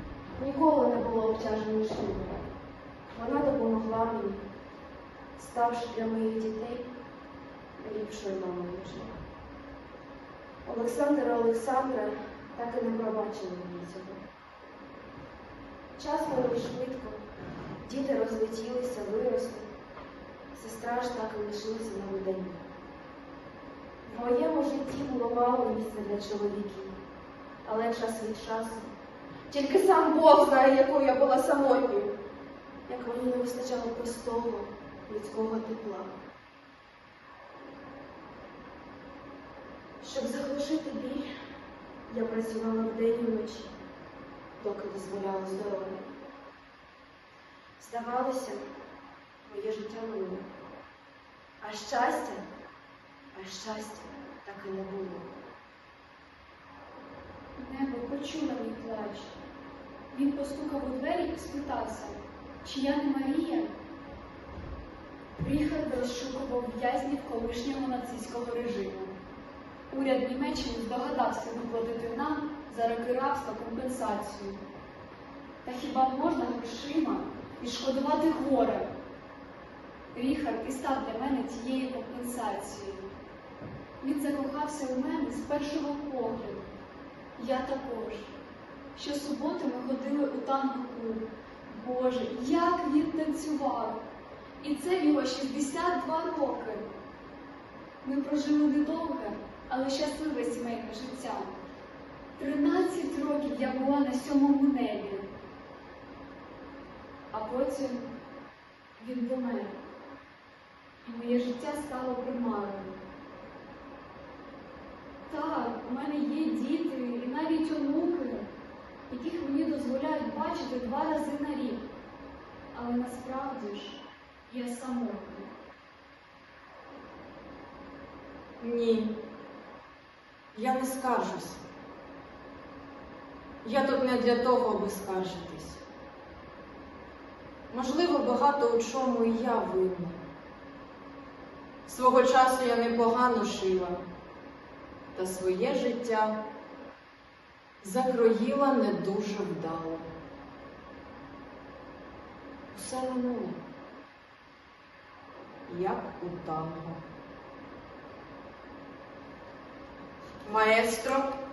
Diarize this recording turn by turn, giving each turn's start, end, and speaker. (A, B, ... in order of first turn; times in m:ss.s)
0:00.4-0:02.4 A
0:03.1-0:04.4 A
0:05.4-0:06.9 A
0:07.8-0:09.1 A
0:10.6-0:14.2 A
0:16.0-0:17.2 A
0:17.8-0:19.7 A
0:20.5-0:22.6 A
0:24.0-0:27.0 A
0:27.6-0:28.9 A
0:29.5-0:32.1 A
0:32.9-0:36.1 A
0:40.0-0:41.2 A
0:42.1-0:43.7 A
0:44.6-0:46.0 A
0:47.8-0:48.6 A
0:49.4-0:50.4 A
0:51.6-0:52.4 A
0:53.3-0:55.3 A
0:57.6-0:59.1 B
0:58.1-0:59.3 A
1:00.1-1:03.7 B
1:05.4-1:09.1 B
1:05.4-1:05.9 A
1:06.4-1:06.8 A
1:08.2-1:09.1 A
1:09.9-1:14.5 B
1:10.6-1:11.5 A
1:12.1-1:13.6 A
1:14.3-1:14.5 A
1:15.6-1:16.9 A
1:15.6-1:18.8 B
1:17.6-1:18.8 A
1:20.1-1:22.9 B
1:20.2-1:23.0 A
1:24.0-1:26.6 A
1:24.0-1:26.5 B
1:27.4-1:28.3 A
1:27.5-1:28.2 B
1:29.0-1:31.1 A
1:29.0-1:33.9 B
1:31.7-1:33.9 A
1:34.6-1:36.8 A
1:34.7-1:36.8 B
1:38.0-1:41.5 B
1:38.7-1:40.0 A
1:40.9-1:41.2 A
1:42.4-1:45.2 B
1:42.7-1:43.4 A
1:47.3-1:48.1 B
1:49.0-1:49.7 A
1:49.1-1:49.7 B
1:51.0-1:52.8 A
1:51.1-1:52.9 B
1:55.3-1:58.5 B
1:55.4-1:55.9 A
1:59.1-2:01.8 B
2:02.7-2:05.5 B
2:08.6-2:09.1 C
2:10.5-2:11.6 C
2:13.6-2:15.8 C
2:17.7-2:20.2 C
2:21.8-2:24.0 C
2:25.1-2:26.3 C
2:27.8-2:30.0 C
2:32.7-2:33.6 C
2:35.7-2:37.0 C
2:40.4-2:41.3 C